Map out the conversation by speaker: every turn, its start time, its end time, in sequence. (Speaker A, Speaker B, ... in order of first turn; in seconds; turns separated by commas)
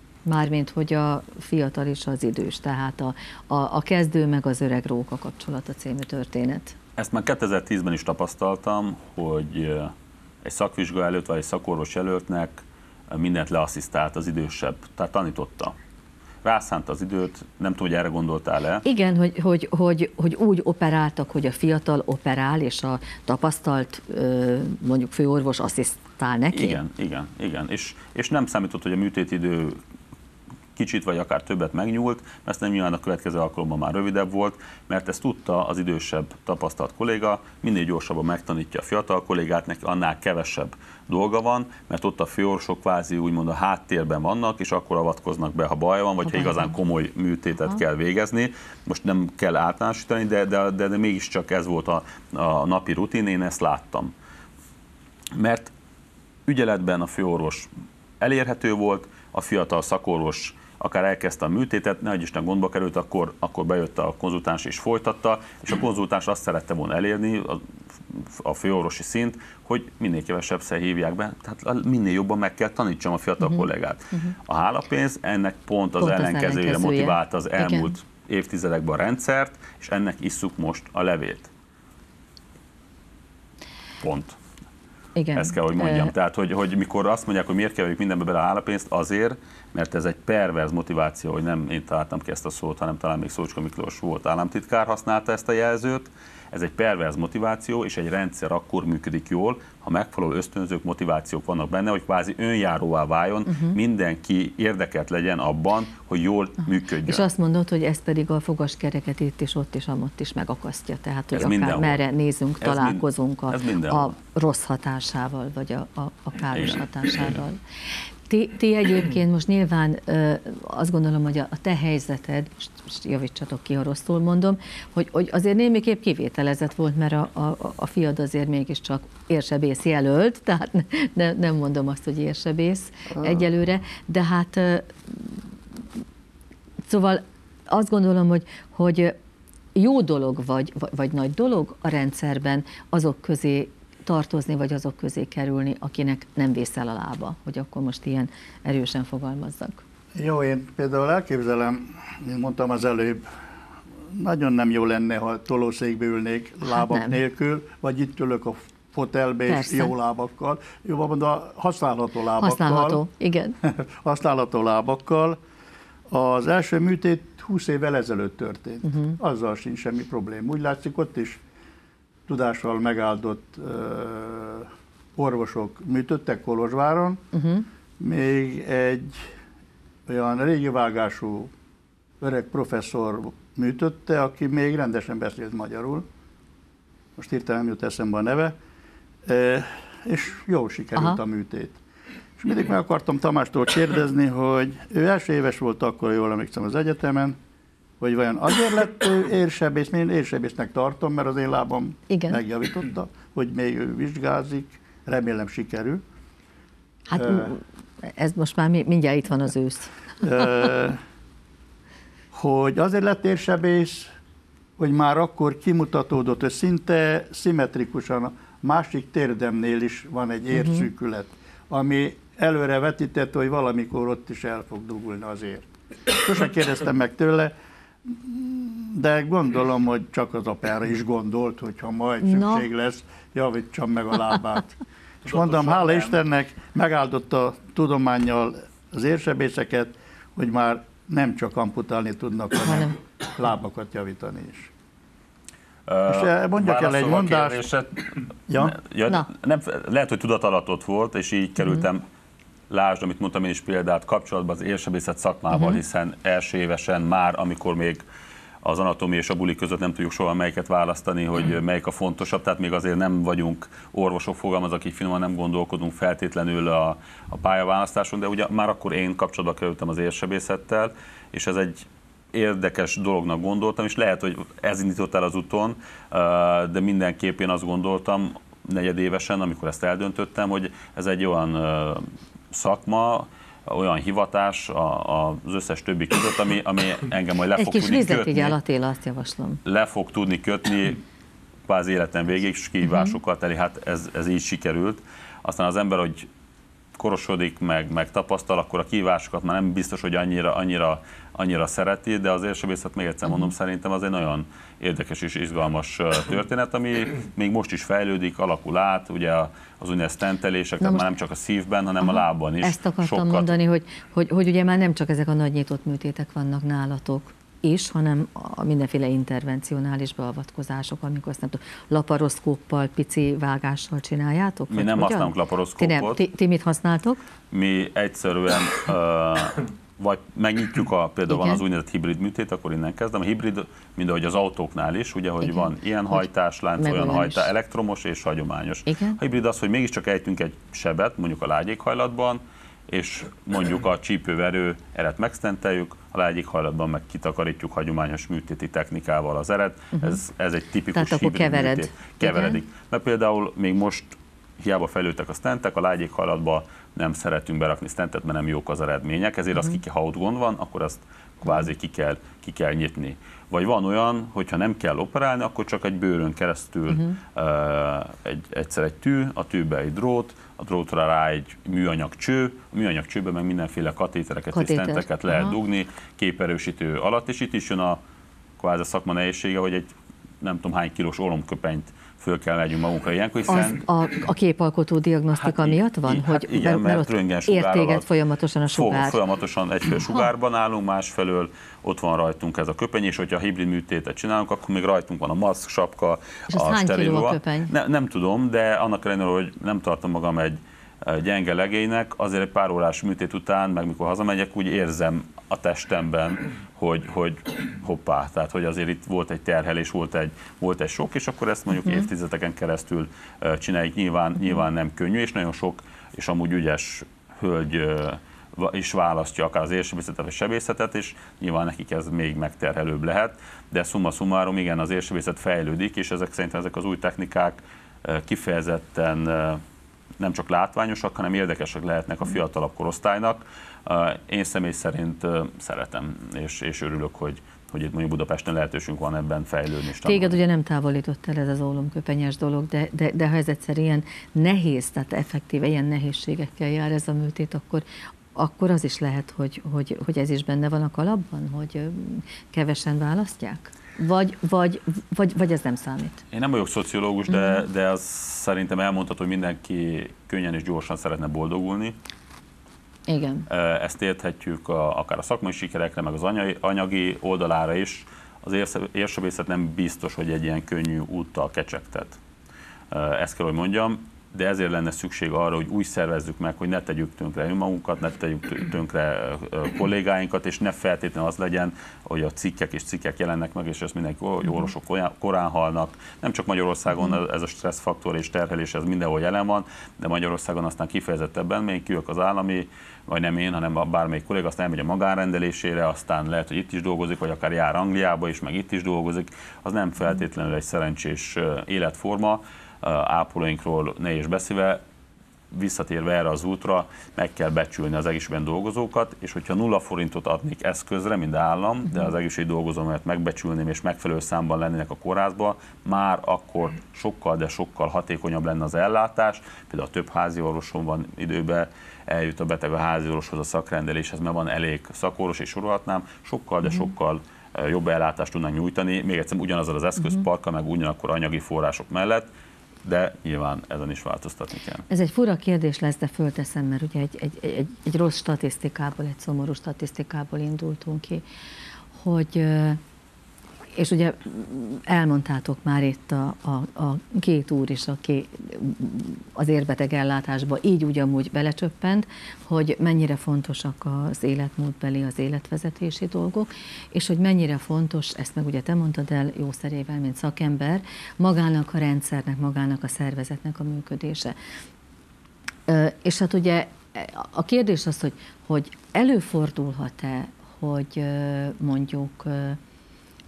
Speaker A: 0.2-6.8, Speaker B: 7.0-9.9, Speaker B: 10.4-15.7, Speaker B: 16.4-18.8, Speaker A: 18.8-26.8, Speaker B: 26.5-29.8, Speaker B: 30.7-54.1, Speaker A: 46.3-46.6, Speaker B: 55.3-55.7, Speaker B: 56.5-57.7, Speaker B: 58.2-81.5, Speaker A: 76.0-77.9, Speaker B: 84.0-84.4, Speaker A: 85.2-86.1, Speaker B: 85.3-107.2, Speaker A: 103.5-103.8, Speaker A: 107.0-117.6, Speaker B: 111.3-112.0, Speaker B: 112.6-114.1, Speaker B: 116.5-117.4, Speaker A: 118.3-135.4, Speaker C: 133.1-133.4, Speaker A: 136.9-139.2, Speaker A: 139.7-149.8, Speaker C: 150.2-153.2, Speaker C: 154.1-163.0, Speaker A: 156.6-157.2, Speaker A: 159.5-159.9, Speaker A: 162.4-163.5, Speaker C: 163.6-165.4, Speaker C: 166.1-171.4, Speaker A: 168.8-169.2, Speaker C: 172.3-177.2, Speaker A: 177.3-177.7, Speaker C: 178.0-179.2, Speaker C: 180.1-181.5, Speaker C: 182.2-186.0, Speaker C: 187.2-188.5, Speaker C: 189.2-191.8, Speaker C: 192.4-197.3, Speaker C: 198.0-206.0, Speaker A: 202.1-202.4, Speaker A: 207.1-209.9, Speaker C: 207.1-207.5, Speaker C: 210.2-211.0, Speaker C: 212.3-214.1, Speaker C: 214.8-227.5, Speaker A: 220.5-220.8, Speaker C: 228.1-244.7, Speaker A: 232.2-232.7, Speaker B: 235.3-236.1, Speaker A: 242.7-242.9, Speaker B: 245.9-252.0, Speaker C: 246.1-247.6, Speaker C: 248.5-248.7, Speaker A: 248.6-249.3, Speaker B: 252.7-258.0, Speaker B: 258.6-288.6, Speaker A: 287.6-289.6, Speaker B: 289.6-291.0, Speaker B: 291.7-296.3, Speaker A: 292.9-293.1, Speaker B: 296.9-313.5, Speaker A: 310.8-311.1, Speaker A: 312.0-327.2, Speaker B: 324.7-326.2, Speaker B: 327.5-378.0, Speaker A: 331.3-331.6, Speaker A: 335.4-336.2, Speaker A: 336.8-337.5, Speaker A: 338.9-339.2, Speaker A: 350.9-352.6, Speaker A: 366.9-367.1, Speaker A: 374.5-375.6, Speaker B: 378.6-379.9, Speaker B: 380.4-383.8, Speaker A: 383.5-389.2, Speaker B: 385.4-388.1, Speaker B: 388.7-429.6, Speaker A: 396.5-397.7, Speaker B: 430.2-440.4, Speaker A: 440.0-456.2, Speaker B: 456.3-462.0, Speaker A: 457.3-457.6, Speaker A: 463.1-463.5, Speaker B: 463.5-472.2, Speaker B: 472.9-504.8, Speaker B: 505.5-532.3, Speaker B: 532.8-534.8, Speaker A: 534.9-541.2, Speaker A: 542.0-542.8, Speaker A: 543.7-564.3, Speaker A: 565.7-572.6